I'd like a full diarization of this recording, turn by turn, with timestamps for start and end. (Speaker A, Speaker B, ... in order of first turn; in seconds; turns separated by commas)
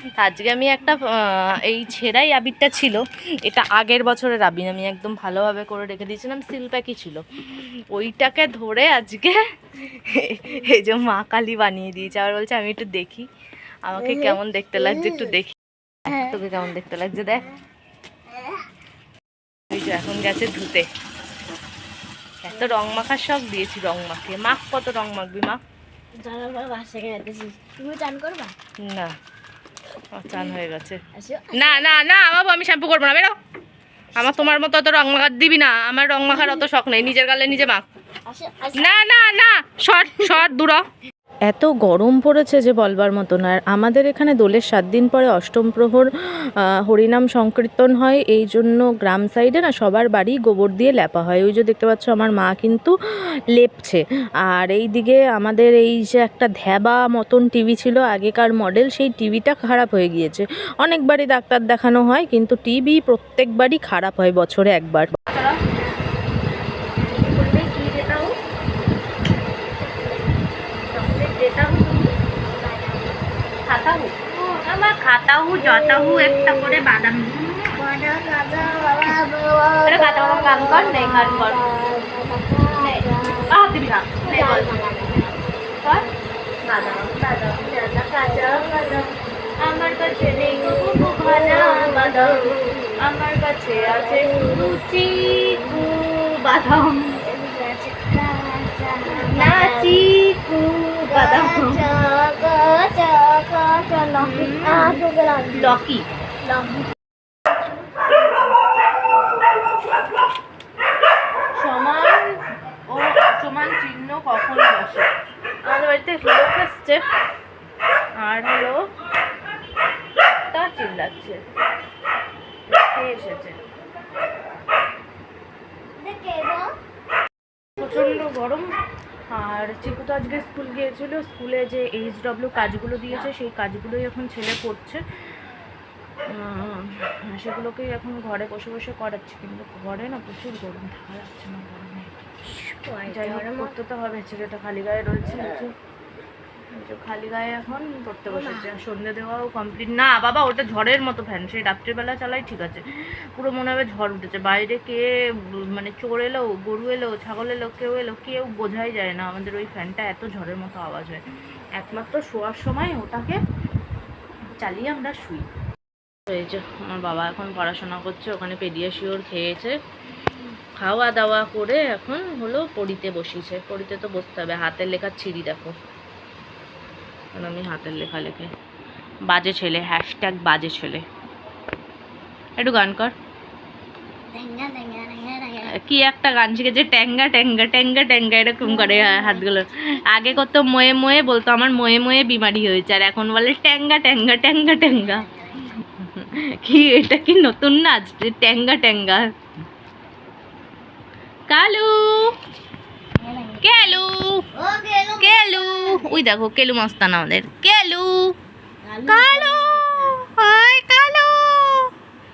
Speaker A: 0.2-13.3, Speaker A: 13.9-17.5, Speaker B: 14.0-15.3, Speaker B: 16.1-16.4, Speaker B: 18.3-18.6, Speaker A: 19.7-20.9, Speaker A: 22.4-25.6, Speaker B: 26.2-28.6, Speaker A: 28.8-29.1, Speaker A: 30.1-31.0, Speaker B: 31.1-32.1, Speaker A: 31.6-33.3, Speaker B: 34.1-34.6, Speaker A: 34.2-37.9, Speaker B: 36.3-36.7, Speaker B: 38.3-39.3, Speaker A: 38.8-40.8, Speaker A: 41.5-46.1, Speaker A: 46.6-52.9, Speaker A: 53.5-65.6, Speaker A: 67.0-68.3, Speaker A: 71.0-72.1, Speaker B: 72.5-73.2, Speaker A: 73.7-77.8, Speaker B: 75.6-76.8, Speaker B: 77.8-83.6, Speaker A: 79.9-81.6, Speaker A: 82.8-84.7, Speaker B: 84.2-85.4, Speaker A: 85.8-86.1, Speaker A: 86.7-97.2, Speaker B: 86.7-89.1, Speaker B: 89.8-93.0, Speaker B: 93.7-96.0, Speaker B: 97.2-100.1, Speaker A: 99.1-101.9, Speaker B: 101.1-105.8, Speaker A: 104.2-105.0, Speaker A: 105.5-106.1, Speaker B: 106.4-106.9, Speaker A: 111.6-115.1, Speaker A: 115.7-117.0, Speaker A: 118.2-118.8, Speaker A: 120.5-121.4, Speaker A: 122.7-123.6, Speaker B: 126.0-126.8, Speaker A: 127.8-128.7, Speaker B: 127.8-128.2, Speaker A: 129.3-135.0, Speaker A: 136.3-142.3, Speaker B: 142.5-143.8, Speaker A: 143.1-145.7, Speaker A: 146.7-152.8, Speaker B: 148.3-148.8, Speaker A: 153.4-161.2, Speaker A: 161.8-163.4, Speaker A: 164.6-165.4, Speaker A: 166.3-169.8, Speaker A: 170.8-175.8, Speaker A: 177.3-178.5, Speaker A: 179.3-181.0, Speaker A: 182.6-183.1, Speaker B: 184.3-185.8, Speaker A: 185.7-199.2, Speaker B: 188.6-189.5, Speaker B: 194.9-195.7, Speaker A: 201.5-202.4, Speaker B: 203.2-206.2, Speaker A: 203.6-204.4, Speaker A: 205.2-208.3, Speaker B: 208.8-210.2, Speaker A: 209.1-211.9